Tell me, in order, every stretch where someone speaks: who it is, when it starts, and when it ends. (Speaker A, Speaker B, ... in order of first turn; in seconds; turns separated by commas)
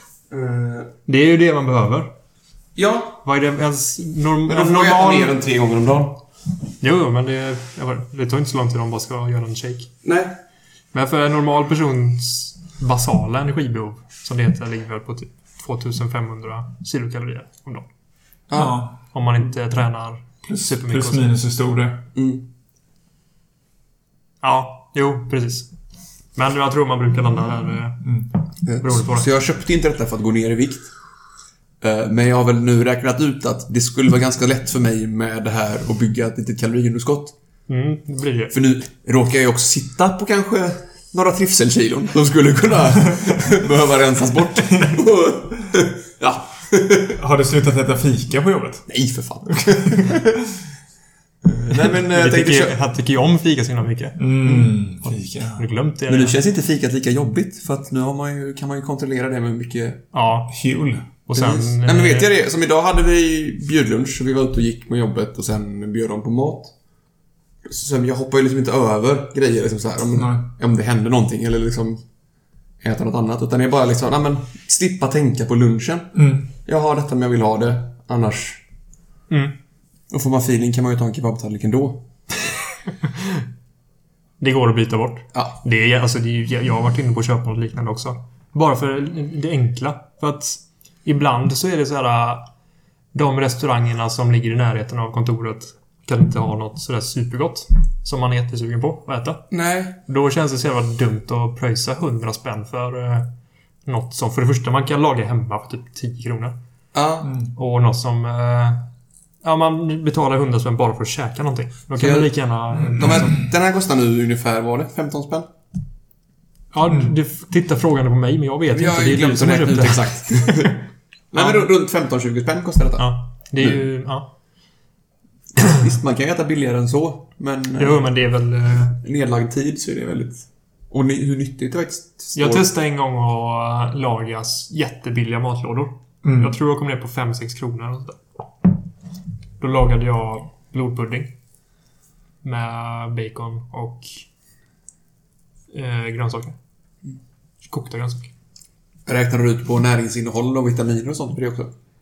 Speaker A: 0.3-0.9, Speaker B: 1.1-2.1, Speaker A: 2.8-3.2, Speaker B: 3.2-5.4, Speaker A: 4.5-6.2, Speaker B: 6.8-9.9, Speaker A: 10.0-10.3, Speaker B: 10.9-17.9, Speaker A: 18.5-18.8, Speaker C: 18.5-19.0, Speaker B: 19.1-21.3, Speaker C: 20.4-22.1, Speaker A: 22.1-22.5, Speaker B: 24.4-25.7, Speaker B: 26.4-28.1, Speaker C: 28.0-28.3, Speaker A: 28.6-30.9, Speaker B: 28.8-29.3, Speaker A: 31.8-37.4, Speaker B: 37.7-38.5, Speaker A: 38.5-47.2, Speaker C: 44.6-45.0, Speaker C: 47.2-48.9, Speaker A: 48.9-50.3, Speaker C: 49.5-50.2, Speaker A: 51.4-52.8, Speaker B: 51.9-54.2, Speaker C: 54.2-55.6, Speaker A: 54.5-54.7, Speaker B: 55.6-56.4, Speaker A: 56.1-60.0, Speaker B: 60.1-60.5, Speaker C: 60.5-61.1, Speaker B: 61.3-62.3, Speaker A: 61.4-66.7, Speaker A: 67.7-72.0, Speaker C: 70.2-70.5, Speaker A: 72.8-78.6, Speaker C: 76.2-76.5, Speaker A: 80.1-82.0, Speaker B: 83.0-83.4, Speaker B: 84.4-92.5, Speaker A: 85.3-85.6, Speaker B: 93.1-99.5, Speaker A: 99.5-100.0, Speaker B: 100.1-103.3, Speaker B: 103.9-106.6, Speaker A: 106.9-107.3, Speaker C: 107.2-107.5, Speaker B: 107.5-108.9, Speaker B: 109.4-113.4, Speaker A: 112.0-112.3, Speaker A: 112.9-115.5, Speaker C: 113.0-113.3, Speaker B: 116.7-120.8, Speaker A: 118.7-120.8, Speaker A: 121.3-123.8, Speaker B: 121.4-121.7, Speaker B: 123.0-124.3, Speaker A: 125.6-128.0, Speaker B: 127.8-129.0, Speaker A: 129.0-132.7, Speaker B: 132.3-138.2, Speaker C: 136.2-136.6, Speaker B: 139.6-141.3, Speaker B: 142.4-144.2, Speaker B: 145.7-146.6, Speaker B: 147.6-148.3, Speaker A: 149.1-151.7